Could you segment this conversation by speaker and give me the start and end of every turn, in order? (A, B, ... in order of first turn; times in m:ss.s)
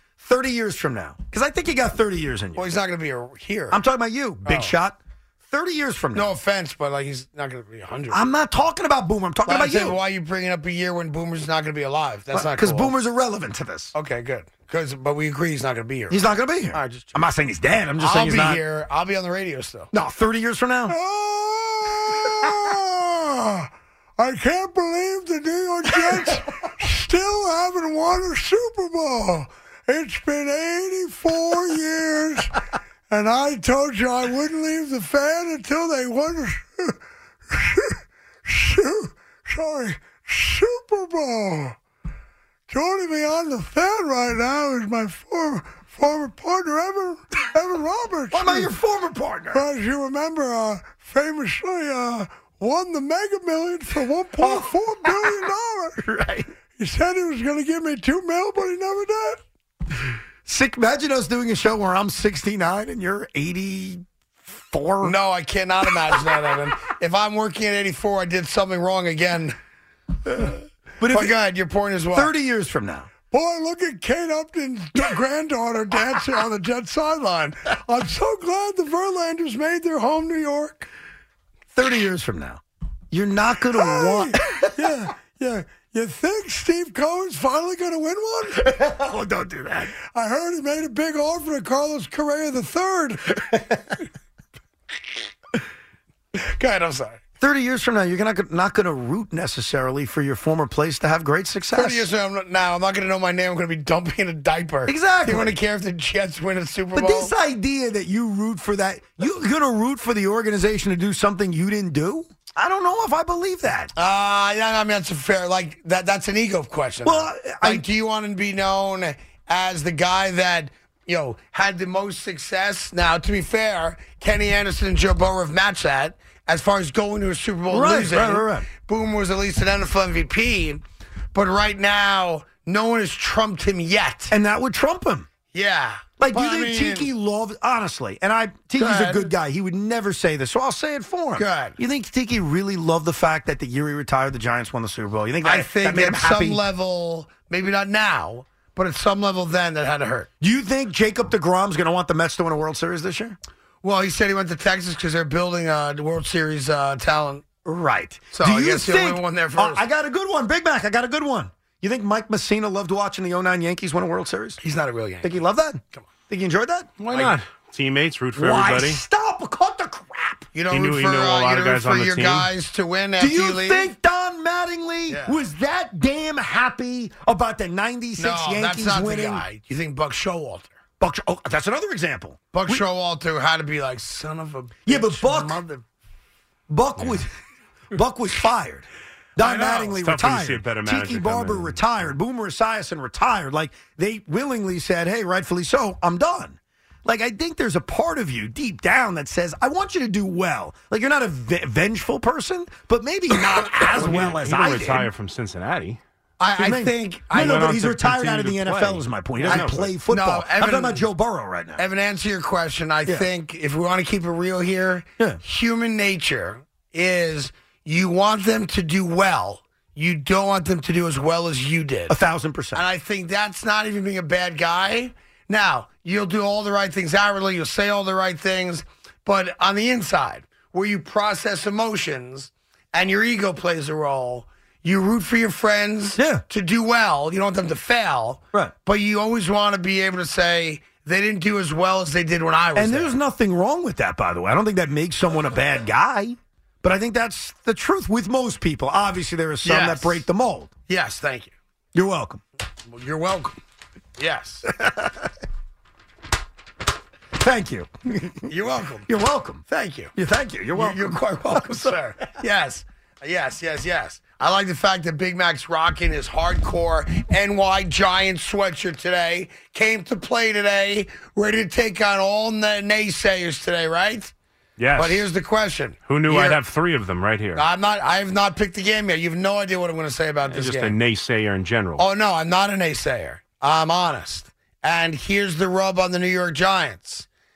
0:00.2-0:02.7 A
0:02.6-0:03.8 B
0:03.7-0:06.3 A
0:04.4-0:04.7 B
0:06.1-0:08.2 B
0:08.1-0:10.0 A
0:09.4-0:12.9 B
0:12.3-0:13.9 A
0:13.9-0:17.1 B
0:16.1-0:18.6 A
0:18.0-0:19.9 B
0:19.9-0:21.0 A
0:20.9-0:32.5 B
0:33.1-0:36.9 B
0:37.5-0:37.9 B
0:38.5-0:41.7 B
0:42.7-0:48.6 B
0:48.3-0:49.6 A
0:49.5-0:56.0 B
0:54.3-0:56.5 A
0:56.8-0:59.4 B
1:00.4-1:05.2 A
1:05.0-1:09.6 B
1:10.3-1:11.3 A
1:10.3-1:10.6 B
1:11.1-1:12.3 B
1:12.1-1:13.1 A
1:13.3-1:20.9 B
1:21.7-1:25.0 A
1:23.8-1:28.8 B
1:28.6-1:29.9 A
1:30.1-1:33.6 B
1:36.3-1:37.2 B
1:37.4-1:42.1 A
1:41.7-1:47.3 B
1:44.8-1:45.6 A
1:46.9-1:53.9 A
1:53.9-2:10.8 B
1:57.0-1:57.8 A
2:07.7-2:08.7 A
2:11.3-2:14.3 B
2:14.3-2:15.3 A
2:15.5-2:17.1 B
2:16.2-2:26.6 A
2:18.8-2:19.3 B
2:21.4-2:21.8 B
2:25.4-2:30.3 B
2:30.4-2:33.4 A
2:33.8-2:37.5 B
2:37.6-2:44.6 A
2:38.3-2:39.8 B
2:44.6-2:45.4 B
2:45.2-2:46.9 A
2:47.0-2:47.4 B
2:47.1-2:49.0 C
2:48.3-2:50.5 A
2:50.5-2:53.9 B
2:50.7-2:52.5 C
2:53.2-2:59.4 A
2:55.1-2:55.4 B
2:58.2-3:00.7 B
3:01.0-3:02.8 A
3:02.5-3:05.8 B
3:04.8-3:05.6 A
3:06.7-3:07.3 A
3:07.9-3:25.1 A
3:09.4-3:11.8 C
3:23.9-3:26.0 C
3:26.4-3:27.7 B
3:26.6-3:31.8 A
3:27.3-3:30.0 C
3:29.4-3:31.0 B
3:31.8-3:42.2 B
3:42.1-3:42.8 A
3:42.7-4:03.2 B
3:56.2-3:56.4 A
4:02.8-4:10.7 A
4:09.6-4:10.2 B
4:10.9-4:11.5 B
4:11.9-4:12.4 A
4:12.8-4:13.6 B
4:14.2-4:14.7 B
4:14.8-4:15.1 A
4:17.3-4:18.5 A
4:18.4-4:19.1 B
4:19.1-4:22.0 A
4:19.7-4:20.1 B
4:20.7-4:34.3 B
4:34.8-4:35.2 C
4:34.9-4:36.6 B
4:36.0-4:37.6 C
4:37.5-4:41.0 B
4:40.4-4:42.1 C
4:42.0-4:47.2 B